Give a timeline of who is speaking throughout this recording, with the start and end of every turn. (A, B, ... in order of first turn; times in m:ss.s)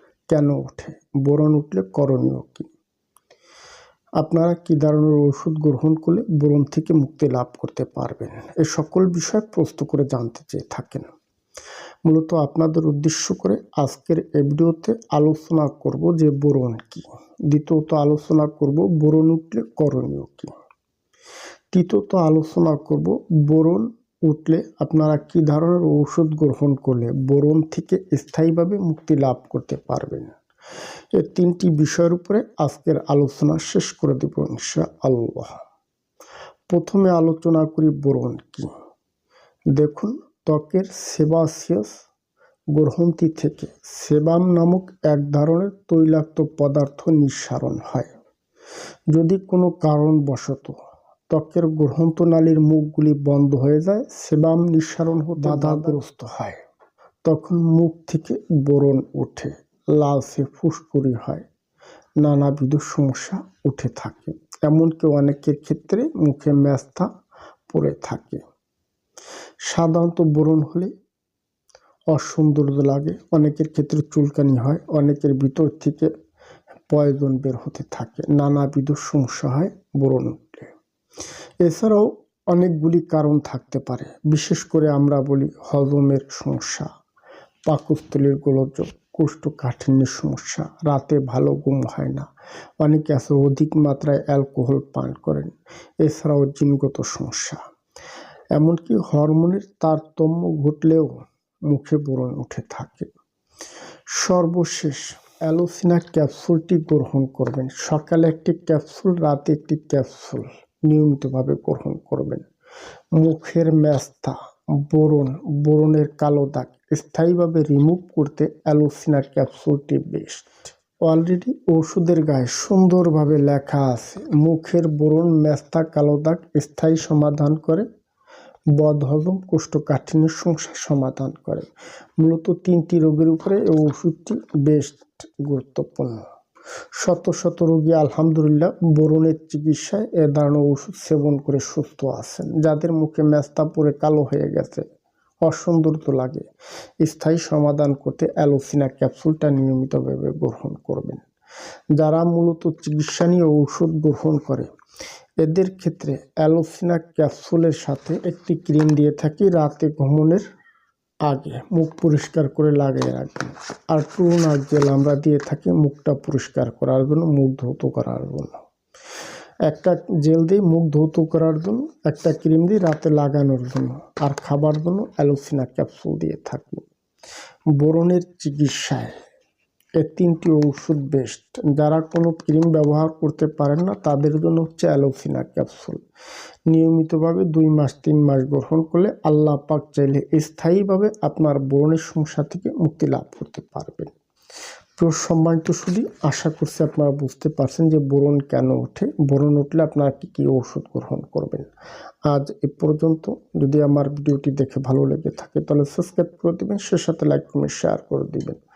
0:00.3-0:02.7 A
0:04.2-0:11.1 A
0:12.0-0:20.5 A
0:21.7-0:30.3 A
0:31.1-0:35.6 A
0:36.7-0:38.7 A
0:39.7-0:41.9 A
0:42.7-0:48.1 A
0:49.1-0:50.7 A
0:51.3-0:56.6 A
0:57.2-1:01.4 A
1:02.2-1:07.1 A
1:07.7-1:08.4 A
1:09.6-1:10.9 A
1:12.1-1:16.1 A
1:16.9-1:20.7 A
1:21.6-1:26.9 A
1:27.6-1:32.3 A
1:32.8-1:35.5 A
1:36.0-1:37.6 A
1:38.5-1:43.1 A
1:44.1-1:52.4 A
1:53.1-2:00.5 A
2:01.0-2:07.8 A
2:08.7-2:11.7 A
2:12.2-2:16.2 A
2:16.9-2:24.8 A
2:25.4-2:26.4 A
2:27.0-2:31.2 A
2:32.0-2:34.7 A
2:35.4-2:40.4 A
2:41.2-2:48.6 A
2:49.6-2:56.8 A
2:57.8-2:59.2 A
3:00.0-3:06.0 A
3:06.7-3:14.1 A
3:15.0-3:21.7 A
3:22.3-3:28.6 A